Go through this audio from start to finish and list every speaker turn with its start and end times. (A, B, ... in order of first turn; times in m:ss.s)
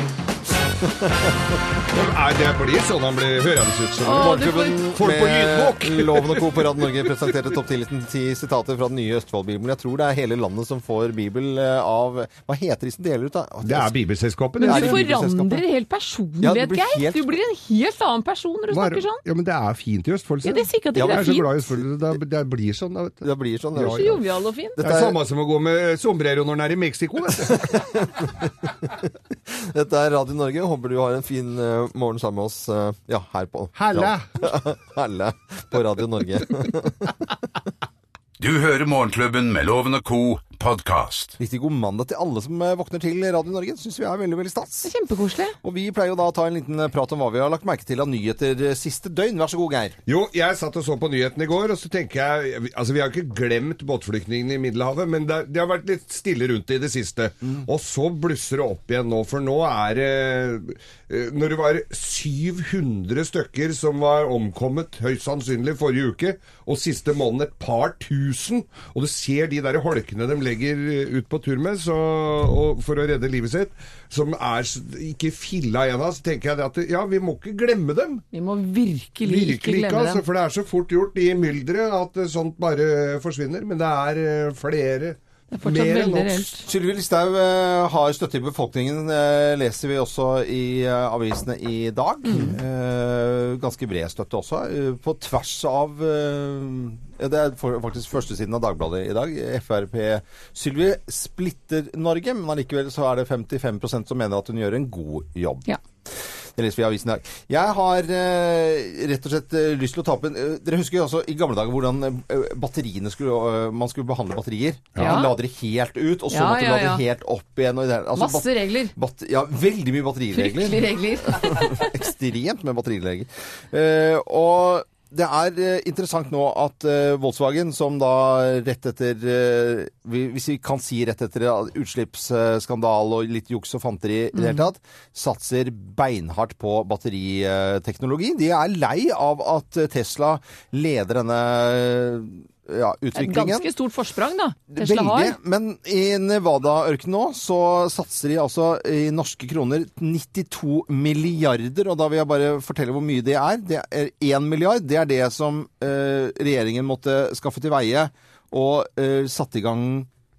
0:01.0-0:01.3 A
0:01.9-0:06.8 B
0:04.0-0:04.9 C
0:04.1-0:14.0 A
0:13.6-0:15.0 B
0:14.6-0:19.2 C
0:14.7-0:15.6 A
0:16.4-0:17.4 A
0:18.7-0:24.2 B
0:20.4-0:21.5 C
0:20.9-0:21.5 A
0:23.2-0:24.2 A
0:23.9-0:24.8 C
0:24.8-0:25.2 A
0:24.8-0:27.6 B
0:27.5-0:37.1 A
0:33.7-0:34.5 B
0:38.4-0:41.4 D
0:41.4-0:44.9 A
0:44.8-0:45.6 C
0:45.6-0:50.0 A
0:50.0-1:18.2 B
1:18.3-1:20.2 C
1:19.2-1:26.6 B
1:25.5-1:26.6 C
1:26.6-1:45.7 A
1:32.2-1:32.5 C
1:46.6-2:23.7 A
1:55.0-1:55.3 C
1:56.3-1:57.0 C
1:58.2-1:58.9 C
2:00.3-2:02.0 C
2:14.3-2:14.7 C
2:23.1-2:25.4 C
2:24.7-2:40.1 A